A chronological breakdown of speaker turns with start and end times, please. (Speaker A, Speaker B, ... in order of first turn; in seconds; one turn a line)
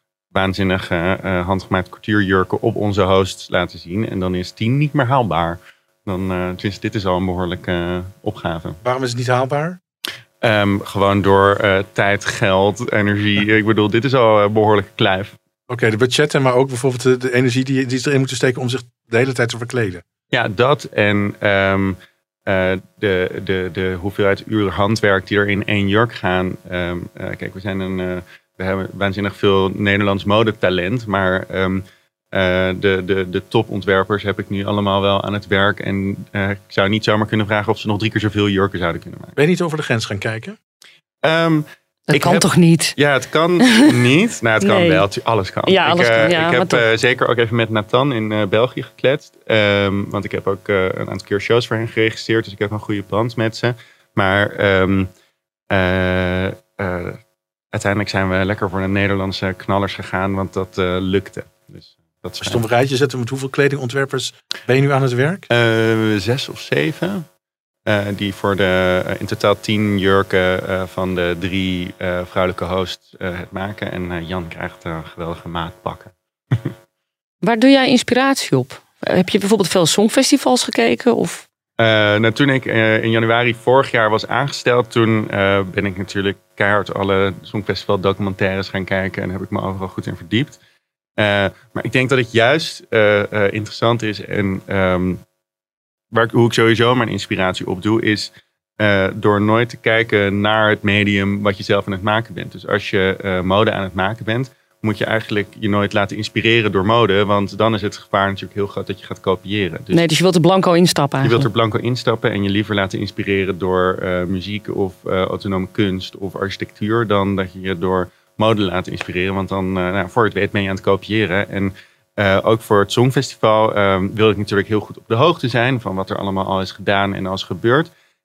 Speaker A: 0.3-8.8
Speaker B: 8.8-9.8
Speaker A: 10.4-15.3
Speaker B: 15.7-20.0
Speaker A: 20.3-39.3
Speaker B: 39.4-40.6
Speaker A: 41.2-42.5
Speaker C: 42.1-42.9
Speaker A: 43.0-55.1
Speaker C: 44.6-45.0
Speaker C: 45.7-46.8
Speaker A: 55.7-57.2
Speaker A: 57.7-62.6
Speaker B: 62.4-65.5
Speaker A: 65.5-67.2
Speaker A: 67.8-76.7
Speaker C: 77.4-81.4
Speaker A: 81.8-90.6
Speaker A: 91.2-95.2
Speaker A: 96.1-110.0
Speaker C: 109.9-111.5
Speaker A: 111.2-127.9